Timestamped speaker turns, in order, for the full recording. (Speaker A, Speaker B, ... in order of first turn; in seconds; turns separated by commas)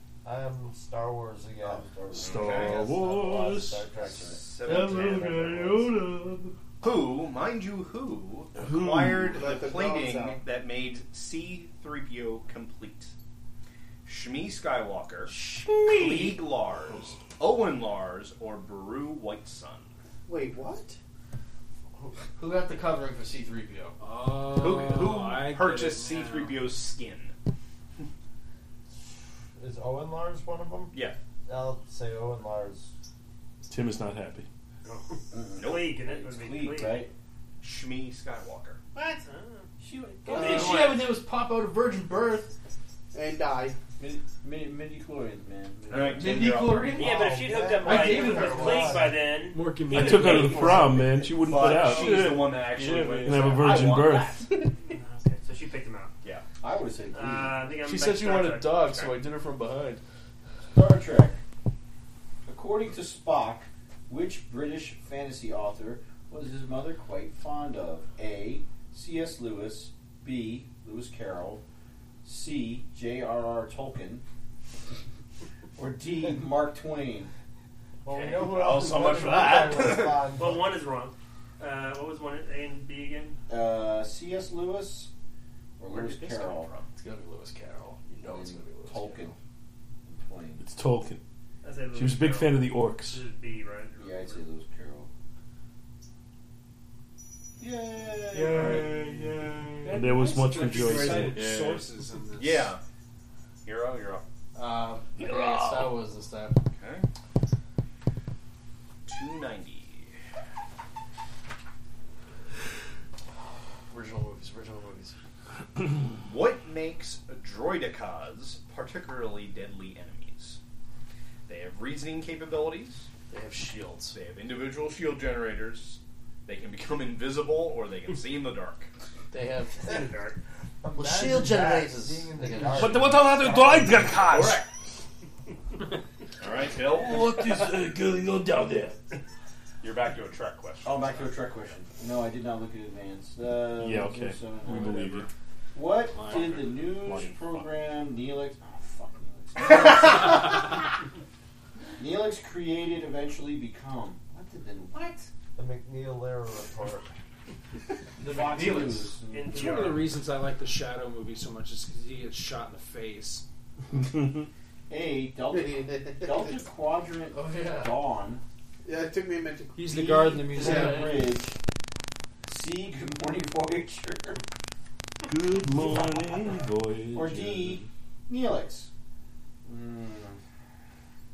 Speaker A: 0.2-1.9, Speaker B: 1.6-3.2, Speaker C: 2.1-3.9, Speaker D: 2.2-2.9, Speaker A: 2.7-4.3, Speaker B: 4.0-4.4, Speaker D: 4.0-6.0, Speaker C: 4.6-6.5, Speaker D: 6.8-13.1, Speaker C: 8.6-9.4, Speaker E: 9.3-10.4, Speaker D: 14.0-19.9, Speaker E: 20.2-21.0, Speaker F: 22.4-23.9, Speaker G: 24.0-26.8, Speaker D: 24.4-27.3, Speaker A: 29.6-30.9, Speaker D: 30.9-31.2, Speaker A: 31.4-32.9, Speaker C: 33.7-34.5, Speaker H: 34.8-37.1, Speaker B: 35.3-37.1, Speaker D: 35.5-36.0, Speaker D: 37.6-38.8, Speaker H: 39.2-39.6, Speaker B: 39.8-40.9, Speaker F: 40.3-42.5, Speaker E: 40.3-40.9, Speaker E: 43.1-43.8, Speaker B: 44.0-46.8, Speaker D: 45.9-47.1, Speaker F: 46.1-47.2, Speaker H: 46.9-49.6, Speaker A: 47.2-47.9, Speaker E: 47.4-48.9, Speaker G: 47.9-48.7, Speaker A: 48.6-49.0, Speaker G: 49.5-51.1, Speaker C: 49.9-52.6, Speaker B: 50.1-50.9, Speaker D: 51.3-54.5, Speaker F: 52.7-53.2, Speaker C: 53.2-54.4, Speaker H: 54.8-56.1, Speaker B: 56.6-57.6, Speaker H: 57.1-59.0, Speaker F: 57.8-60.0, Speaker B: 60.7-61.4, Speaker B: 62.5-71.6, Speaker B: 72.2-74.2, Speaker B: 75.8-77.3, Speaker A: 78.0-80.7, Speaker D: 78.1-80.3, Speaker H: 80.3-83.4, Speaker B: 83.5-85.1, Speaker B: 85.8-86.7, Speaker D: 85.8-86.9, Speaker F: 87.0-89.3, Speaker B: 88.2-89.3, Speaker B: 90.0-90.6, Speaker C: 90.6-91.2, Speaker H: 91.6-94.4, Speaker C: 91.9-93.2, Speaker B: 94.0-95.1, Speaker B: 97.6-99.6, Speaker C: 98.4-98.9, Speaker G: 99.8-102.7, Speaker C: 99.8-101.4, Speaker F: 101.3-101.8, Speaker D: 102.3-102.8, Speaker D: 103.6-104.2, Speaker F: 104.5-106.5, Speaker D: 106.7-107.1, Speaker D: 109.1-110.1, Speaker F: 113.9-115.1, Speaker D: 116.0-120.6, Speaker D: 121.5-123.1, Speaker F: 123.3-124.1, Speaker D: 124.1-128.9, Speaker F: 129.3-130.1, Speaker H: 129.8-130.3, Speaker A: 130.8-134.3, Speaker F: 130.9-133.1, Speaker C: 132.7-134.6, Speaker D: 134.3-134.7, Speaker D: 136.4-137.3, Speaker C: 136.9-139.0, Speaker D: 139.8-141.7, Speaker B: 140.8-150.8, Speaker C: 143.7-145.3, Speaker G: 146.2-146.5, Speaker C: 146.9-147.7, Speaker B: 152.0-155.3, Speaker A: 155.6-157.1, Speaker B: 158.2-160.1, Speaker F: 158.2-159.0, Speaker H: 159.3-159.7, Speaker G: 159.5-163.4, Speaker C: 164.2-164.4, Speaker B: 164.9-168.4, Speaker E: 165.5-166.5, Speaker F: 167.3-167.9, Speaker E: 168.8-170.6, Speaker G: 169.8-171.1, Speaker B: 169.8-171.6, Speaker F: 170.6-171.2, Speaker B: 172.5-174.4, Speaker C: 175.3-177.9, Speaker B: 175.8-176.3, Speaker B: 177.1-178.9, Speaker B: 179.6-180.4